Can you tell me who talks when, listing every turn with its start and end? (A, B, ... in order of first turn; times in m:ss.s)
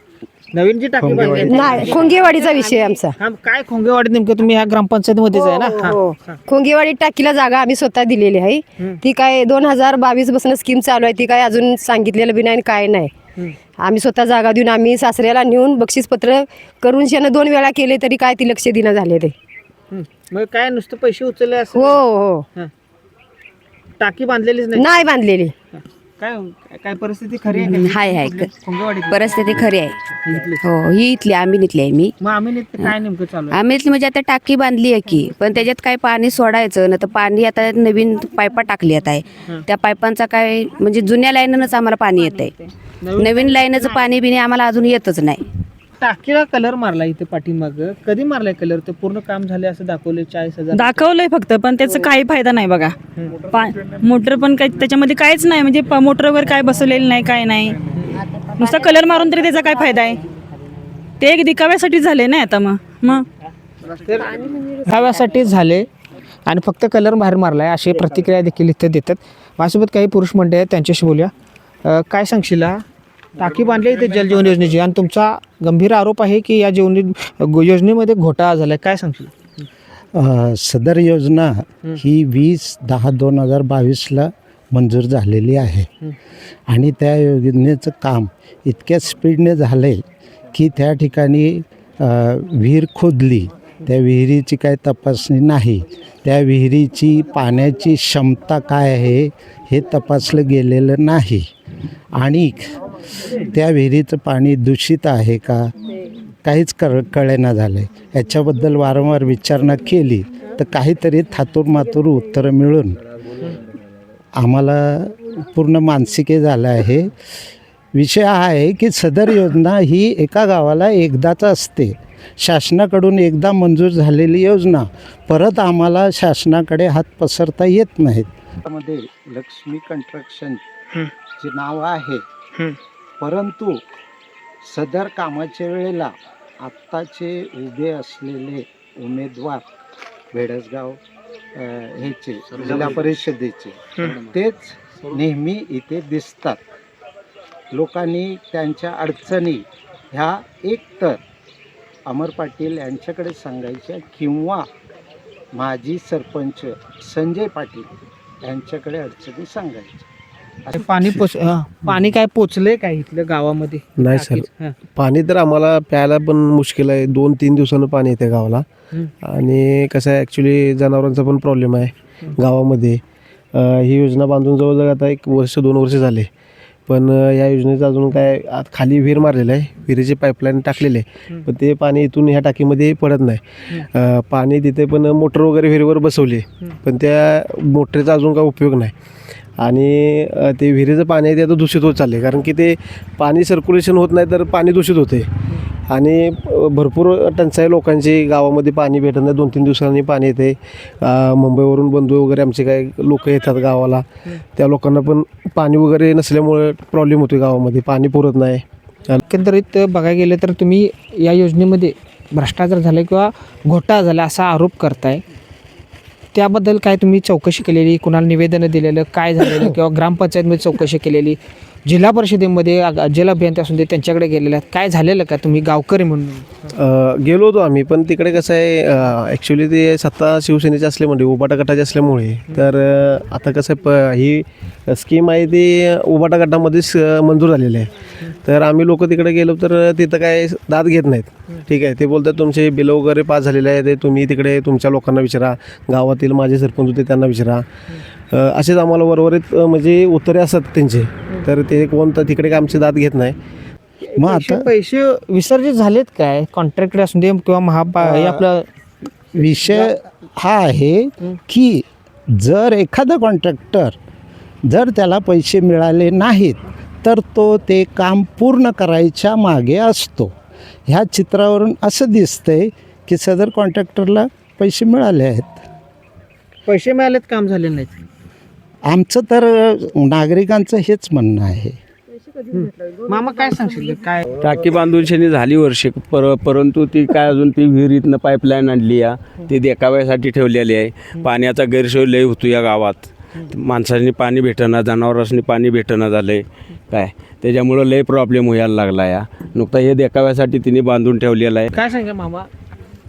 0:00.5-0:06.4 A
0:01.0-0:01.9 B
0:01.1-0:03.2 C
0:05.3-0:13.1 C
0:13.8-0:19.3 C
0:19.9-0:22.0 A
0:21.7-0:22.5 C
0:24.0-0:25.1 A
0:24.7-0:25.5 C
0:25.7-0:29.6 A
0:27.5-0:28.5 D
0:29.0-0:30.1 D
0:30.2-0:30.6 A
0:30.6-0:32.1 D
0:32.2-0:33.6 A
0:33.5-0:42.6 D
0:43.0-0:44.0 A
0:43.1-0:45.4 D
0:46.0-0:51.0 A
0:50.7-0:57.8 E
0:57.9-0:58.2 A
0:58.6-1:00.2 E
1:01.2-1:03.2 E
1:03.8-1:05.9 A
1:06.5-1:11.3 A
1:11.8-1:12.8 A
1:13.4-1:19.6 A
1:20.1-1:25.9 B
1:26.7-1:30.0 B
1:30.5-1:41.5 B
1:42.1-1:42.8 B
1:43.3-1:45.7 B
1:46.4-1:53.0 B
1:54.3-1:57.1 B
1:57.9-2:10.6 B
2:11.4-2:12.2 B
2:13.2-2:13.8 B
2:14.6-2:19.7 B
2:20.3-2:21.0 B
2:21.5-2:26.6 B
2:27.7-2:31.2 B
2:32.1-2:34.7 B
2:35.5-2:37.9 B
2:38.4-2:40.0 B
2:40.7-2:44.7 A
2:44.0-2:48.6 F
2:49.2-2:53.0 F
2:53.5-2:56.3 F
2:56.9-3:08.9 F
3:09.6-3:15.3 F
3:15.9-3:29.2 F
3:29.3-3:35.2 A
3:36.3-3:46.7 A
3:46.8-3:57.9 F
3:58.4-4:07.6 F
4:08.3-4:13.4 F
4:14.0-4:18.7 A
4:14.2-4:14.6 B
4:18.0-4:18.4 B
4:19.3-4:24.0 B
4:24.6-4:30.3 B
4:30.9-4:35.6 B
4:36.7-4:38.0 A
4:38.8-4:41.8 B
4:42.5-4:44.2 A
4:44.4-5:01.7 G
5:01.7-5:02.5 A